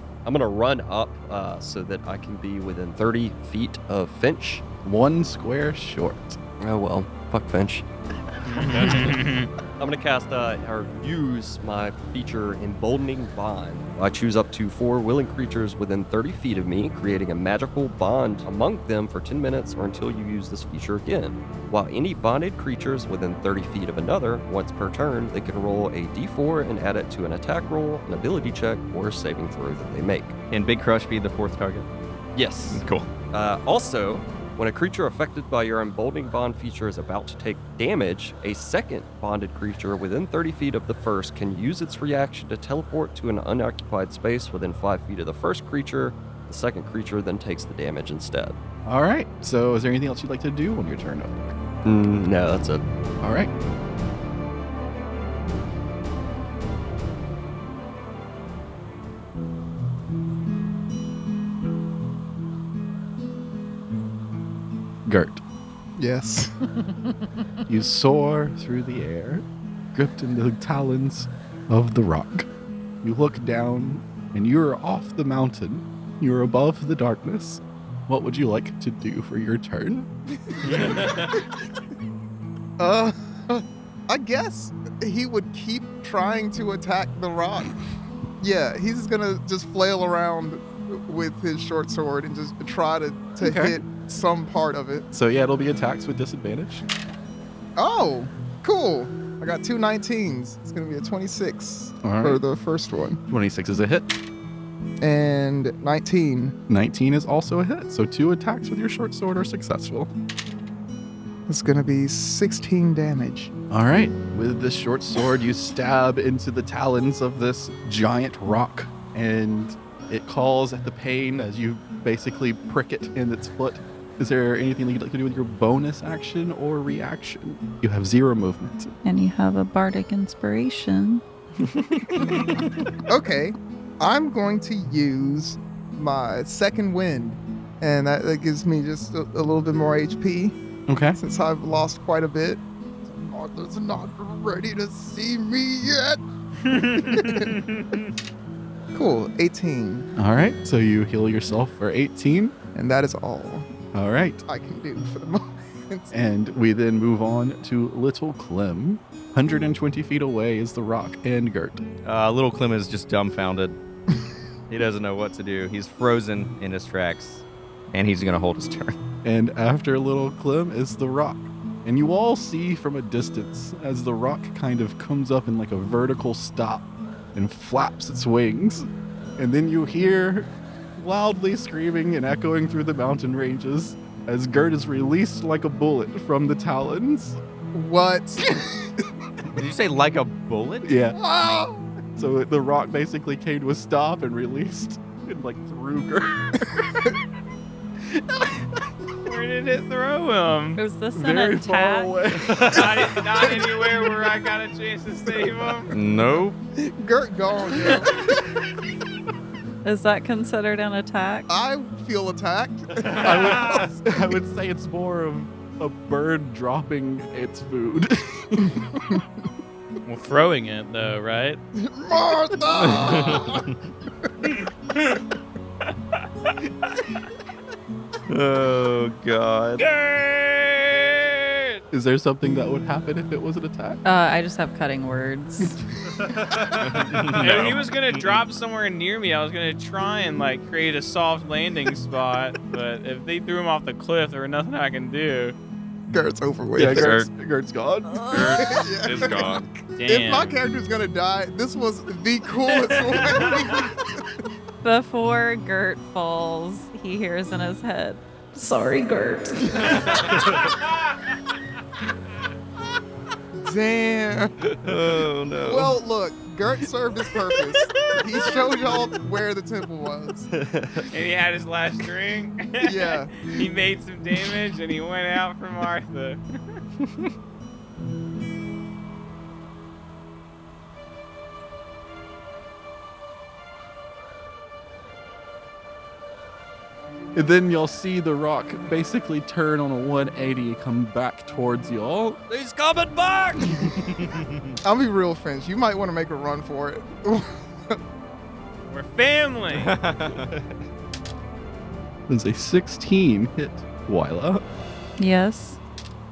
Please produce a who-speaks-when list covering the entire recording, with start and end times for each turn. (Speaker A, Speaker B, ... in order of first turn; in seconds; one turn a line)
Speaker A: 0.2-4.6
Speaker B: 4.8-6.4
Speaker A: 6.6-7.8
Speaker C: 8.4-9.5
Speaker A: 8.6-9.2
Speaker A: 9.8-30.4
Speaker D: 30.5-31.9
Speaker A: 32.4-48.6
Speaker D: 32.7-33.1
Speaker B: 48.9-51.6
Speaker A: 51.9-52.8
Speaker B: 53.2-53.5
Speaker B: 65.1-65.4
Speaker E: 66.0-66.7
Speaker B: 67.7-72.5
Speaker B: 73.0-80.1
Speaker C: 80.7-81.3
Speaker E: 80.8-81.1
Speaker E: 82.8-87.8
Speaker E: 88.4-95.1
Speaker B: 93.4-93.8
Speaker B: 95.1-96.9
Speaker E: 97.8-103.2
Speaker B: 102.0-102.4
Speaker B: 103.3-104.2
Speaker E: 105.0-106.6
Speaker B: 106.7-110.1
Speaker E: 111.5-113.5
Speaker B: 113.7-128.9
Speaker F: 129.1-131.2
Speaker E: 133.1-140.6
Speaker B: 140.9-141.2
Speaker E: 141.2-146.2
Speaker C: 146.7-148.1
Speaker E: 147.0-147.6
Speaker E: 148.9-150.1
Speaker B: 150.2-152.5
Speaker E: 152.7-153.7
Speaker B: 153.9-154.4
Speaker E: 154.5-156.2
Speaker B: 156.1-161.8
Speaker D: 162.1-163.8
Speaker D: 164.7-168.9
Speaker B: 169.2-178.9
Speaker B: 179.4-187.4
Speaker E: 187.7-189.1
Speaker D: 189.5-190.9
Speaker B: 190.8-191.2
Speaker E: 191.2-192.0
Speaker B: 192.2-197.1
Speaker B: 198.0-198.7
Speaker C: 199.2-200.8
Speaker F: 200.8-202.2
Speaker B: 201.2-202.8
Speaker C: 202.6-205.9
Speaker D: 205.9-206.6
Speaker E: 206.8-208.5
Speaker F: 209.8-211.5
Speaker E: 211.5-213.9
Speaker B: 213.1-219.2
Speaker C: 220.0-221.6
Speaker E: 221.8-223.7
Speaker D: 222.8-223.7
Speaker C: 224.7-225.2
Speaker D: 228.3-229.8
Speaker C: 229.8-231.7
Speaker B: 231.9-234.0
Speaker F: 234.1-235.8
Speaker C: 236.2-245.6
Speaker D: 236.6-238.3
Speaker E: 246.1-247.2
Speaker B: 246.8-248.7
Speaker D: 246.8-247.3
Speaker F: 248.1-248.4
Speaker D: 248.3-249.7
Speaker E: 248.3-254.4
Speaker C: 250.0-250.5
Speaker F: 254.8-260.2
Speaker C: 260.6-261.0
Speaker E: 263.6-264.6
Speaker D: 264.8-265.9
Speaker E: 265.6-270.5
Speaker A: 270.5-271.1
Speaker C: 271.0-276.4
Speaker E: 272.8-273.6
Speaker B: 287.4-292.4
Speaker A: 292.5-293.7
Speaker D: 293.8-294.8
Speaker E: 294.9-298.0
Speaker C: 298.9-300.0
Speaker D: 299.7-300.6
Speaker B: 302.3-304.6
Speaker F: 305.2-305.8